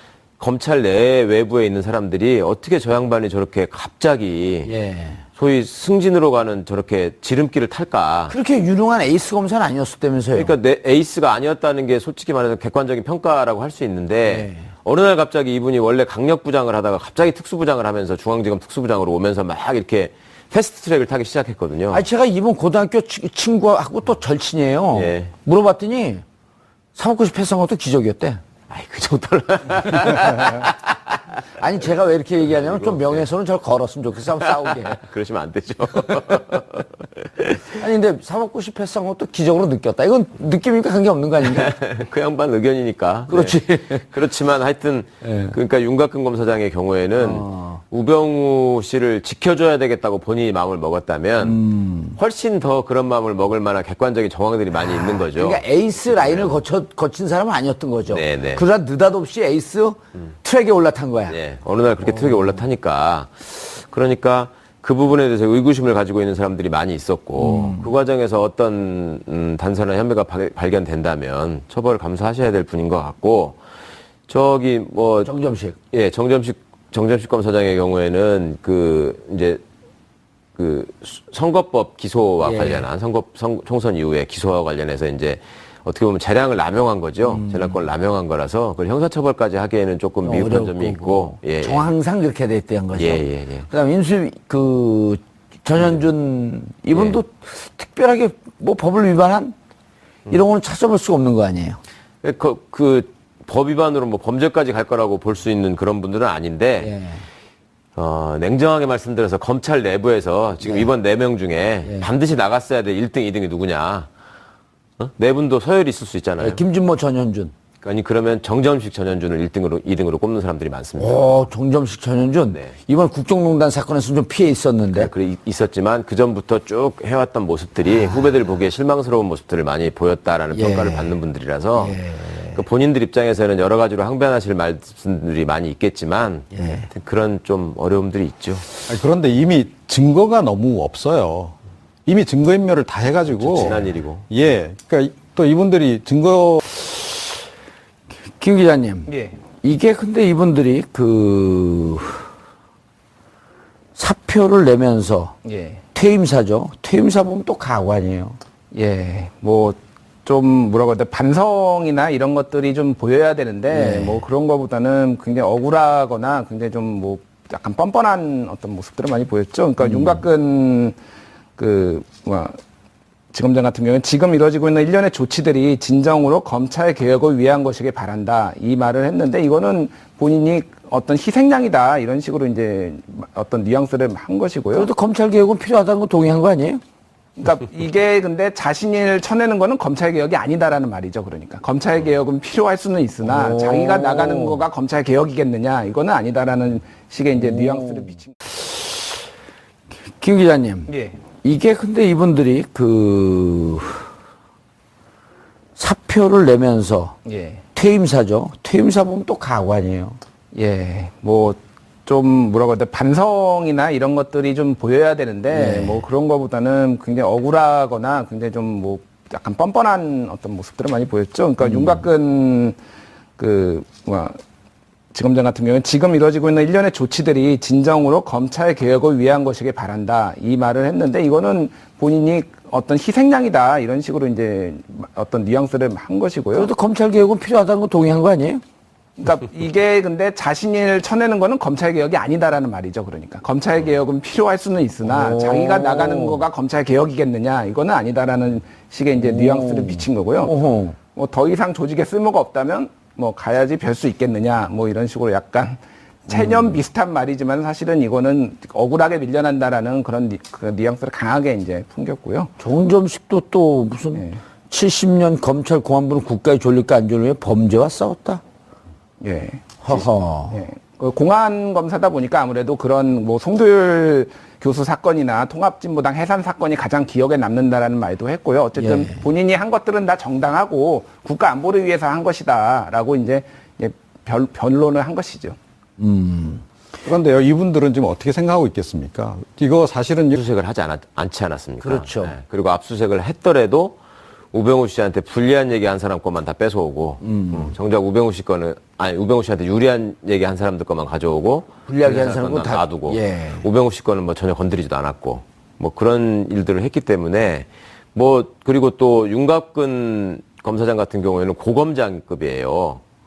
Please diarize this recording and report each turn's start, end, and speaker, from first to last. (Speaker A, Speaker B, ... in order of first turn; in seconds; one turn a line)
Speaker A: 0.4-4.7
Speaker B: 4.7-5.2
Speaker A: 5.4-8.4
Speaker B: 8.3-10.5
Speaker A: 10.3-22.1
Speaker B: 14.2-14.7
Speaker B: 21.9-26.2
Speaker A: 24.9-25.3
Speaker B: 26.9-28.4
Speaker A: 28.7-31.1
Speaker B: 31.6-35.0
Speaker A: 32.5-33.3
Speaker A: 34.4-37.8
Speaker B: 37.7-41.7
Speaker A: 41.4-51.6
Speaker B: 43.3-44.1
Speaker B: 45.2-45.6
Speaker B: 47.2-47.8
Speaker B: 51.4-52.2
Speaker A: 52.2-56.6
Speaker B: 54.8-61.4
Speaker A: 58.1-58.6
Speaker A: 61.3-73.6
Speaker B: 62.1-62.6
Speaker B: 67.4-67.9
Speaker A: 74.3-75.3
Speaker B: 75.2-75.8
Speaker A: 75.9-79.6
Speaker A: 80.6-91.9
Speaker B: 82.4-82.9
Speaker B: 87.2-87.9
Speaker B: 90.2-99.5
Speaker A: 92.9-93.7
Speaker A: 96.9-97.2
Speaker B: 100.3-101.8
Speaker A: 102.2-106.9
Speaker B: 106.8-107.3
Speaker A: 108.0-114.1
Speaker B: 110.6-110.9
Speaker B: 111.8-112.1
Speaker A: 115.0-116.6
Speaker B: 116.4-117.5
Speaker A: 117.8-121.4
Speaker B: 121.0-125.1
Speaker A: 124.9-138.7
Speaker B: 127.8-128.2
Speaker B: 130.5-131.2
Speaker B: 131.8-132.6
Speaker B: 136.5-136.9
Speaker C: 138.9-141.6
Speaker C: 142.1-146.7
Speaker A: 143.3-144.3
Speaker B: 148.2-152.3
Speaker D: 149.1-149.4
Speaker B: 154.0-155.3
Speaker D: 155.4-155.8
Speaker B: 155.9-158.4
Speaker D: 158.7-171.0
Speaker B: 163.7-164.2
Speaker B: 169.8-170.2
Speaker D: 171.6-172.6
Speaker D: 173.3-184.9
Speaker B: 184.7-186.8
Speaker D: 187.4-198.3
Speaker B: 193.2-194.6
Speaker B: 197.4-199.1
Speaker B: 200.1-200.9
Speaker D: 200.9-201.2
Speaker B: 201.4-204.1
Speaker B: 205.8-207.2
Speaker D: 207.2-207.6
Speaker B: 207.7-210.2
Speaker D: 210.5-222.8
Speaker B: 215.5-216.0
Speaker B: 221.6-222.0
Speaker D: 223.4-224.4
Speaker D: 225.1-236.7
Speaker B: 236.5-238.6
Speaker D: 239.2-250.6
Speaker B: 245.0-246.4
Speaker B: 249.2-251.0
Speaker D: 251.2-262.5
Speaker B: 256.3-256.7
Speaker B: 262.6-268.4
Speaker D: 264.1-264.4
Speaker D: 269.2-285.6
Speaker B: 269.8-270.6
Speaker B: 278.8-279.2
Speaker B: 286.0-286.6
Speaker C: 287.1-290.4
Speaker A: 290.3-294.0
Speaker B: 291.8-292.4
Speaker A: 294.5-313.0
Speaker B: 297.2-297.8
Speaker B: 301.9-303.7